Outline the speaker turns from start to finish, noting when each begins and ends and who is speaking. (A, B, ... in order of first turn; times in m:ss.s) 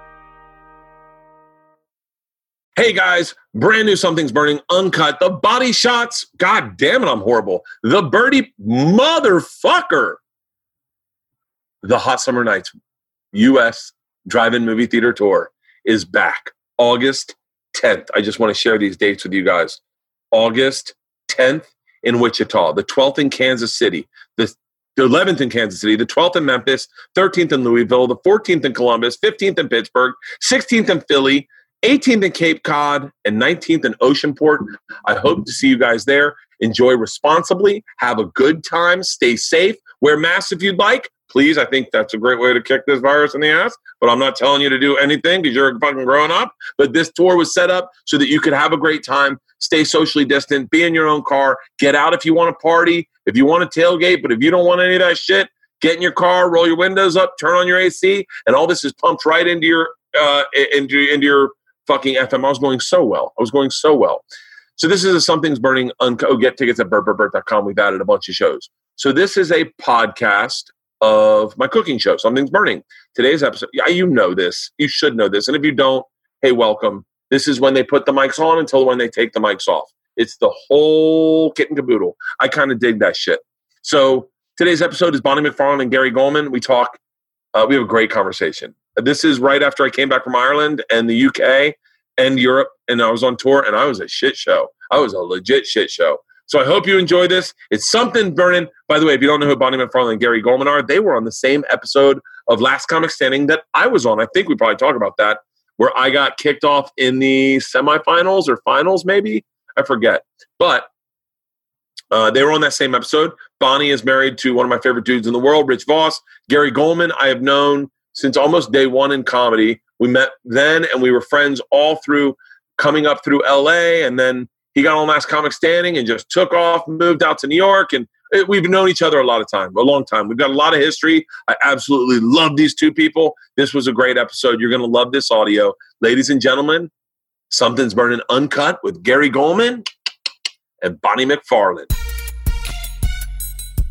0:02.8-0:10.2 A
0:11.8-0:12.7 A
0:13.3-0:19.8 A
0:20.3-1:04.2 A
1:04.8-1:27.0 A
1:27.5-1:50.9 A
1:52.1-2:16.9 A
2:17.5-2:19.8 A
2:20.8-2:21.9 A